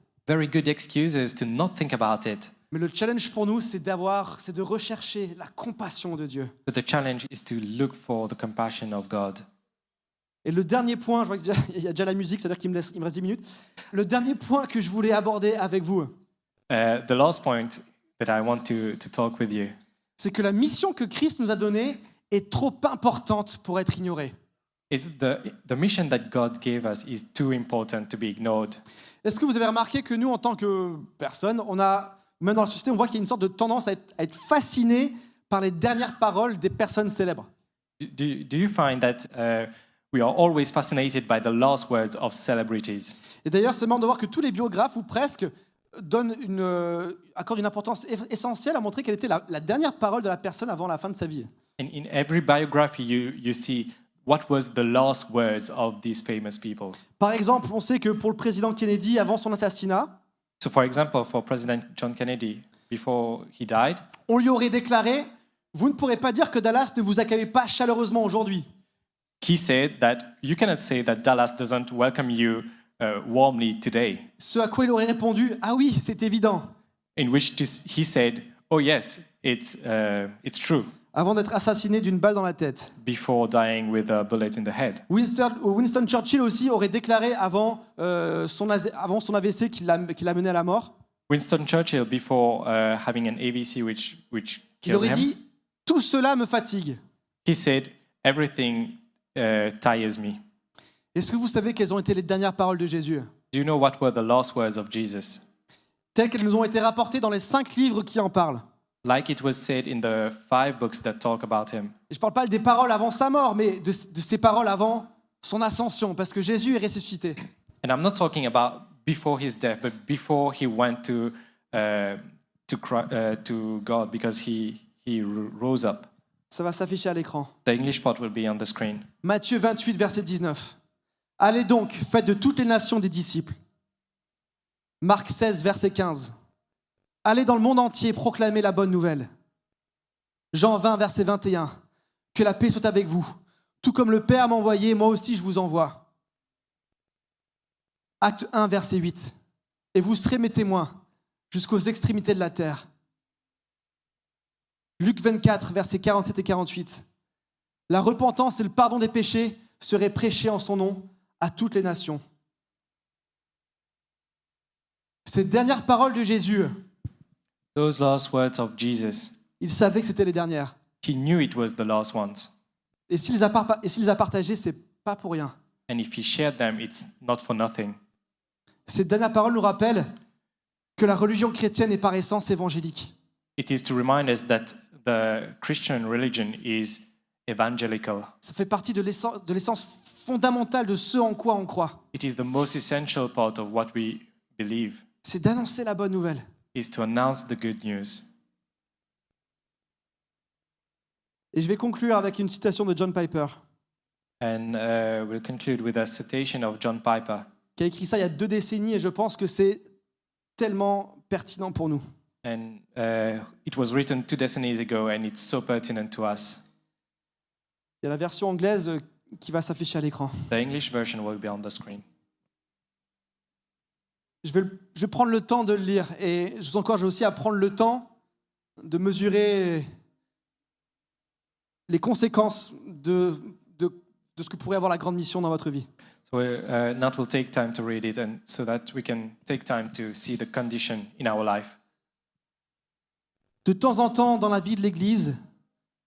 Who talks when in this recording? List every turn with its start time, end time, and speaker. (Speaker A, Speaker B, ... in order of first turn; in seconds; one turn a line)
Speaker A: 0.3-2.5
Speaker B: 2.7-6.5
Speaker A: 6.7-9.4
Speaker B: 10.4-16.1
Speaker A: 16.7-19.8
Speaker B: 20.2-24.3
Speaker A: 24.9-28.8
Speaker B: 29.2-37.5
Speaker A: 38.0-43.2
Speaker B: 43.4-51.5
Speaker A: 51.8-57.0
Speaker B: 57.2-60.2
Speaker A: 60.6-64.0
Speaker B: 64.3-68.7
Speaker A: 69.4-74.3
Speaker B: 74.4-76.7
Speaker A: 77.2-80.9
Speaker B: 81.1-82.9
Speaker A: 83.0-85.0
Speaker B: 85.1-90.9
Speaker A: 91.3-95.3
Speaker B: 94.9-97.0
Speaker A: 97.5-100.4
Speaker B: 101.2-103.3
Speaker A: 103.5-105.4
Speaker B: 106.2-108.6
Speaker A: 109.0-111.9
Speaker B: 112.1-117.4
Speaker A: 117.8-126.1
Speaker B: 126.5-127.5
Speaker A: 127.7-129.1
Speaker B: 129.2-130.8
Speaker B: 131.4-133.6
Speaker B: 135.0-136.3
Speaker B: 137.2-139.3
Speaker B: 140.5-141.8
Speaker B: 142.3-146.0
Speaker B: 148.2-149.3
Speaker B: 149.9-151.0
Speaker B: 151.5-152.9
Speaker B: 155.0-157.1
Speaker B: 157.9-162.2
Speaker B: 165.3-166.7
Speaker A: 167.8-169.4
Speaker B: 169.6-170.8
Speaker A: 171.0-172.5
Speaker B: 173.1-175.6
Speaker A: 175.9-178.0
Speaker B: 178.9-180.1
Speaker B: 181.0-183.1
Speaker A: 183.6-188.3
Speaker B: 188.4-192.0
Speaker A: 192.1-195.0
Speaker B: 195.2-196.4
Speaker A: 196.7-198.3
Speaker B: 201.5-203.6
Speaker A: 204.4-207.5
Speaker B: 207.8-209.8
Speaker B: 210.6-212.0
Speaker A: 212.4-216.6
Speaker B: 218.0-220.4
Speaker A: 220.5-222.0
Speaker B: 224.4-228.1
Speaker B: 228.8-229.9
Speaker B: 231.9-235.9
Speaker A: 236.3-241.8
Speaker B: 243.7-245.3